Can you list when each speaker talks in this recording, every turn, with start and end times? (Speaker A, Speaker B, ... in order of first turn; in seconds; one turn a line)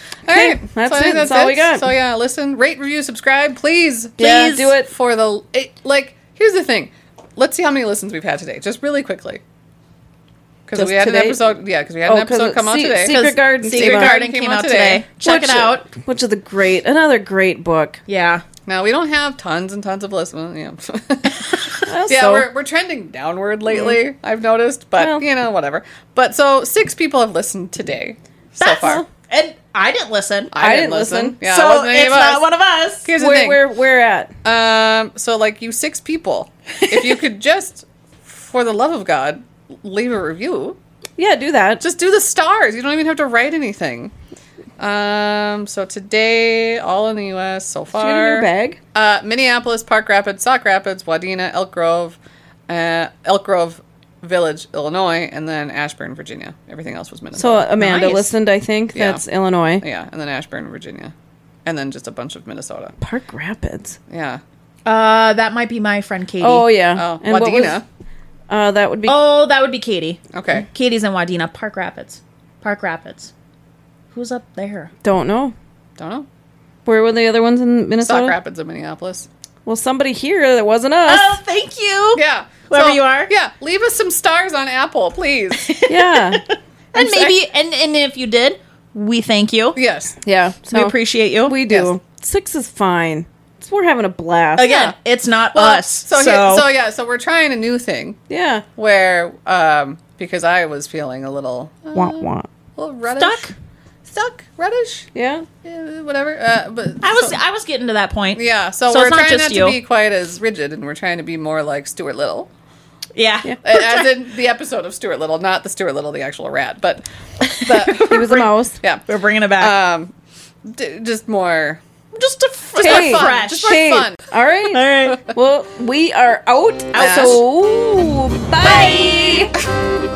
Speaker A: 0.2-9.4
Speaker B: 0.3-1.9
Speaker B: 4.2-4.9
Speaker C: 4.2-4.7
Speaker A: 10.7-13.2
Speaker B: 10.8-11.4
Speaker B: 12.0-14.1
Speaker C: 13.1-15.8
Speaker A: 13.7-15.0
Speaker B: 15.2-18.0
Speaker C: 18.1-18.4
Speaker A: 18.6-29.0
Speaker B: 21.9-22.5
Speaker B: 23.7-24.0
Speaker B: 25.0-25.2
Speaker C: 28.6-30.5
Speaker A: 30.5-32.5
Speaker B: 30.6-31.4
Speaker C: 31.4-33.1
Speaker A: 33.0-33.6
Speaker B: 33.1-34.3
Speaker A: 34.4-40.8
Speaker B: 41.2-41.8
Speaker A: 41.8-44.1
Speaker A: 44.8-52.1
Speaker B: 47.9-48.8
Speaker A: 52.7-58.1
Speaker B: 57.4-59.8
Speaker C: 57.8-58.3
Speaker A: 58.9-59.2
Speaker A: 59.8-61.1
Speaker A: 61.6-62.9
Speaker B: 63.0-64.0
Speaker A: 64.1-64.4
Speaker C: 64.8-66.7
Speaker B: 66.4-67.8
Speaker A: 66.9-67.8
Speaker B: 68.5-69.2
Speaker C: 69.1-73.3
Speaker A: 70.3-70.7
Speaker C: 74.1-74.9
Speaker B: 75.0-75.5
Speaker A: 76.0-76.3
Speaker B: 76.8-78.3
Speaker A: 78.0-79.3
Speaker B: 79.7-81.4
Speaker C: 81.0-83.3
Speaker A: 82.1-85.7
Speaker C: 85.6-89.8
Speaker B: 85.9-86.4
Speaker A: 86.9-87.3
Speaker A: 89.8-90.2
Speaker B: 90.2-94.8
Speaker C: 90.7-91.6
Speaker C: 94.5-96.6
Speaker A: 94.6-94.9
Speaker A: 95.5-98.2
Speaker B: 98.3-98.6
Speaker A: 98.8-103.5
Speaker B: 101.9-102.5
Speaker C: 103.1-103.5
Speaker A: 104.0-105.1
Speaker B: 105.1-105.5
Speaker A: 105.6-107.4
Speaker C: 107.0-109.8
Speaker A: 108.3-112.5
Speaker C: 113.1-114.1
Speaker A: 113.6-119.0
Speaker C: 117.4-118.1
Speaker B: 118.1-118.8
Speaker C: 119.1-119.7
Speaker A: 119.6-120.1
Speaker A: 120.6-121.8
Speaker C: 122.1-123.8
Speaker A: 122.8-124.2
Speaker B: 122.8-129.5
Speaker C: 124.7-125.2
Speaker C: 126.9-127.4
Speaker A: 127.0-127.4
Speaker C: 128.6-129.5